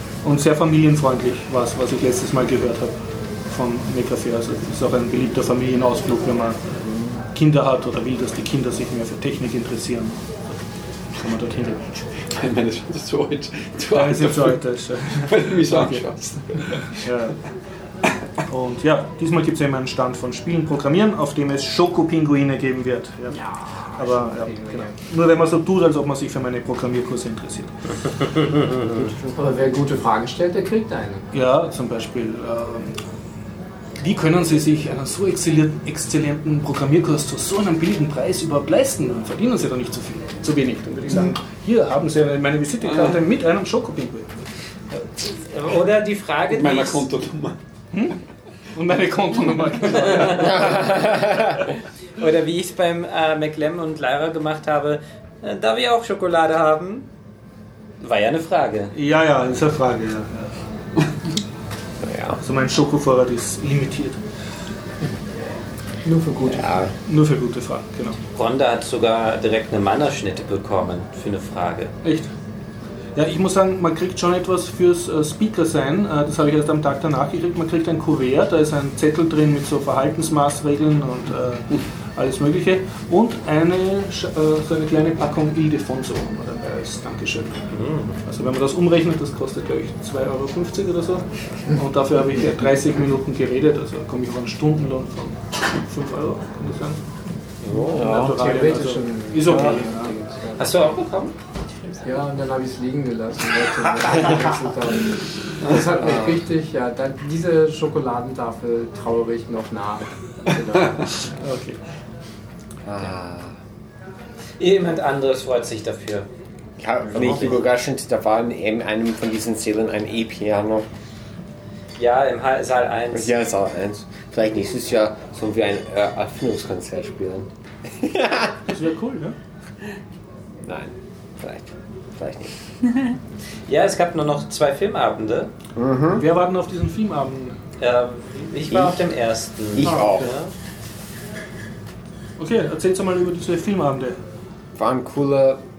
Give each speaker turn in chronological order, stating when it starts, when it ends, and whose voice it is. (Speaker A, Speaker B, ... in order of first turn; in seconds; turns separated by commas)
Speaker A: 0.2-6.8, Speaker A: 7.3-10.4, Speaker A: 11.1-12.1, Speaker B: 12.1-17.1, Speaker A: 13.9-17.5, Speaker A: 18.5-29.2, Speaker C: 23.3-25.0, Speaker C: 29.2-31.3, Speaker A: 31.3-33.1, Speaker A: 34.0-45.1, Speaker D: 45.4-47.1, Speaker B: 46.5-47.6, Speaker A: 47.9-50.8, Speaker B: 50.0-50.5, Speaker D: 50.2-50.7, Speaker D: 52.2-57.1, Speaker D: 58.0-58.9, Speaker A: 58.9-60.6, Speaker E: 62.0-62.4, Speaker A: 62.4-64.2, Speaker C: 66.0-66.8, Speaker E: 66.4-67.0, Speaker A: 67.0-68.2, Speaker D: 68.3-71.9, Speaker A: 72.0-72.3, Speaker A: 73.2-97.2, Speaker D: 87.7-88.2, Speaker D: 97.6-98.2, Speaker A: 97.7-100.2, Speaker C: 97.9-100.7, Speaker D: 100.6-101.4, Speaker C: 102.0-111.4, Speaker E: 106.0-106.4, Speaker A: 111.4-111.8, Speaker E: 112.8-113.6, Speaker D: 114.6-116.3, Speaker E: 116.8-120.9, Speaker D: 117.1-117.6, Speaker D: 122.0-123.3, Speaker E: 123.1-128.6, Speaker A: 128.7-129.4, Speaker E: 130.6-132.6, Speaker D: 133.7-135.5, Speaker E: 135.8-136.2, Speaker A: 136.2-137.6, Speaker D: 137.8-140.5, Speaker E: 138.7-139.0, Speaker E: 139.6-140.3, Speaker A: 139.8-140.3, Speaker A: 142.4-144.2, Speaker E: 144.8-145.7